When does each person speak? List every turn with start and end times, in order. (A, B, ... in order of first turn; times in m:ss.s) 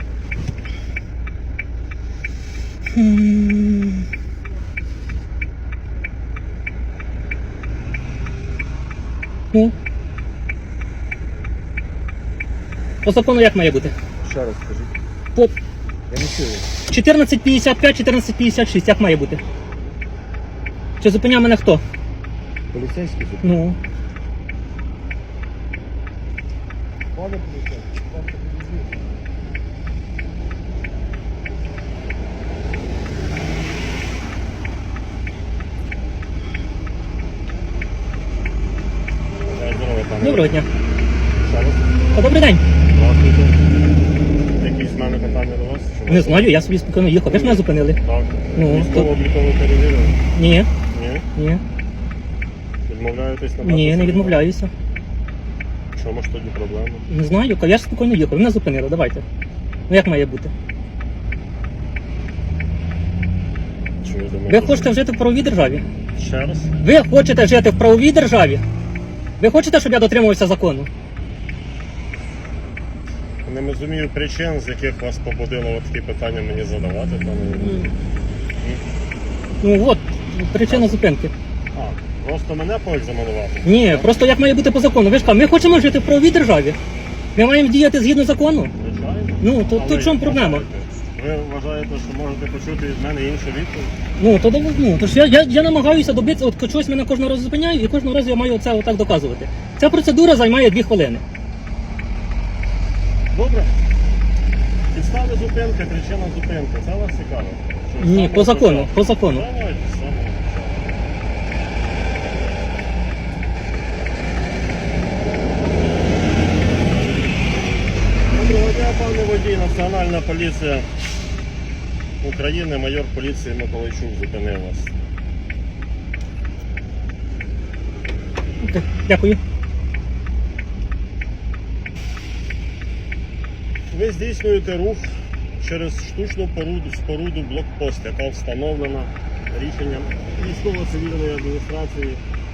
0:02.9-0:04.1 A
0:13.0-0:14.0 A
0:14.2-0:14.9 B
0:16.1-0:16.7 B
0:16.9-0:19.4 A
0:21.0-0:21.8 A
0:22.7-0:23.6 B
0:23.4-0:23.8 A
0:27.2-0:29.1 B
0:39.4-0:40.6 C
0:40.2-0:40.7 A
0:41.4-0:42.2 C
0:42.1-0:42.6 A
0:42.9-0:43.6 C
0:44.6-0:46.5 C
0:46.1-0:48.0 A
0:47.2-0:50.2 C
0:48.6-0:49.1 A
0:50.3-0:50.7 A
0:50.9-0:51.3 C
0:51.4-0:51.6 A
0:52.9-0:54.4 C
0:53.6-0:54.7 A
0:56.0-0:57.1 C
0:57.1-0:59.2 A
0:59.9-1:00.5 A
1:04.0-1:04.9 C
1:04.5-1:05.8 A
1:06.2-1:06.7 C
1:06.8-1:08.6 A
1:09.4-1:10.9 A
1:13.4-1:17.8 C
1:17.6-1:17.9 A
1:19.6-1:21.3 A
1:20.6-1:21.0 C
1:21.7-1:24.2 C
1:23.6-1:26.8 A
1:27.4-1:28.7 A
1:28.8-1:34.0 C
1:29.4-1:30.7 A
1:34.2-1:41.2 A
1:43.3-1:43.8 C
1:44.9-1:50.9 C
1:48.0-1:49.5 A
1:58.3-2:00.9 C
2:02.2-2:04.9 C
2:08.6-2:09.4 A
2:13.9-2:22.2 C